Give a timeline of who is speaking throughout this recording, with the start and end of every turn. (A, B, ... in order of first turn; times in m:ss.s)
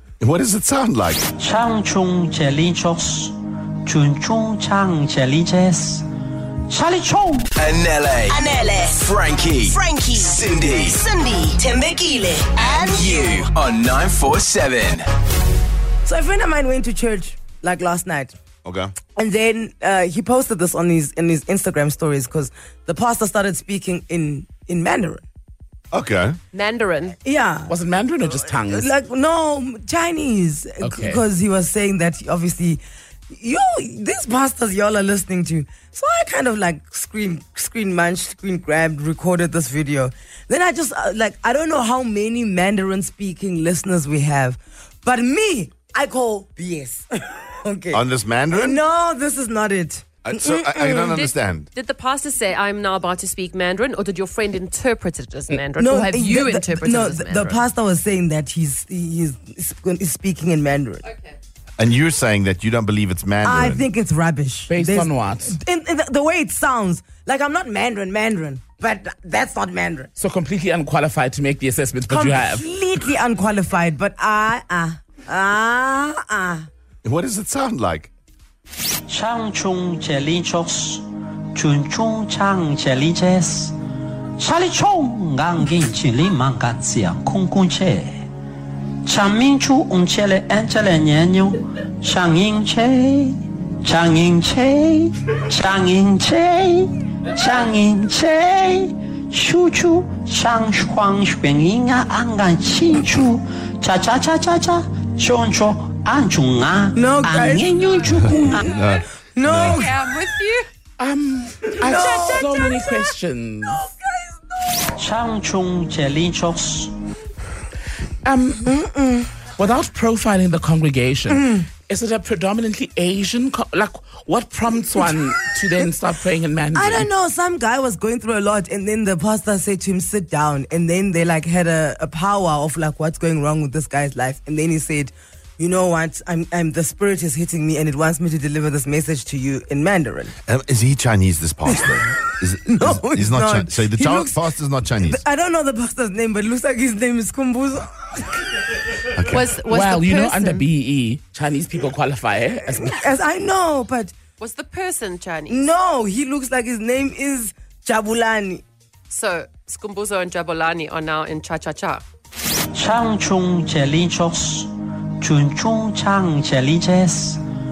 0:00.2-0:01.2 A
0:01.4-0:06.0 B
0:06.7-0:07.5 B
0:07.6-0:11.0 C
0:08.3-0:13.4 D
0:12.5-0:15.1 C
0:16.0-0:18.3 E
0:18.6-0:19.0 A
0:19.2-0:25.2 E
0:25.9-0:26.4 A
0:26.5-0:27.2 F
0:27.2-0:27.7 E
0:27.7-0:28.9 G
0:28.5-0:51.2 E
0:30.8-0:31.2 G
0:47.9-0:48.8 A
0:50.2-0:51.7 A
0:51.1-0:57.6 F
0:55.8-1:01.0 E
1:01.8-1:03.9 A
1:03.4-1:10.1 E
1:04.7-1:05.6 G
1:10.2-1:12.7 G
1:12.1-1:16.7 E
1:17.0-1:18.1 A
1:19.1-1:23.8 B
1:24.4-1:28.3 B
1:29.0-1:48.8 B
1:47.0-1:50.0 E
1:48.8-1:49.8 A
1:49.7-1:50.7 F
1:51.0-1:53.8 G
1:51.7-1:53.1 E
1:53.7-1:55.0 E
1:55.0-1:56.9 B
1:58.2-1:58.7 G
1:58.6-1:59.3 E
1:59.6-2:07.1 G
2:01.3-2:01.7 E
2:06.8-2:20.3 E
2:20.5-2:25.2 A
2:22.7-2:24.4 E
2:25.0-2:28.4 E
2:29.3-2:30.7 F
2:29.6-2:33.0 G
2:32.7-2:34.1 E
2:34.4-2:35.7 F
2:35.5-2:38.6 E
2:39.1-2:42.0 F
2:42.7-2:47.4 B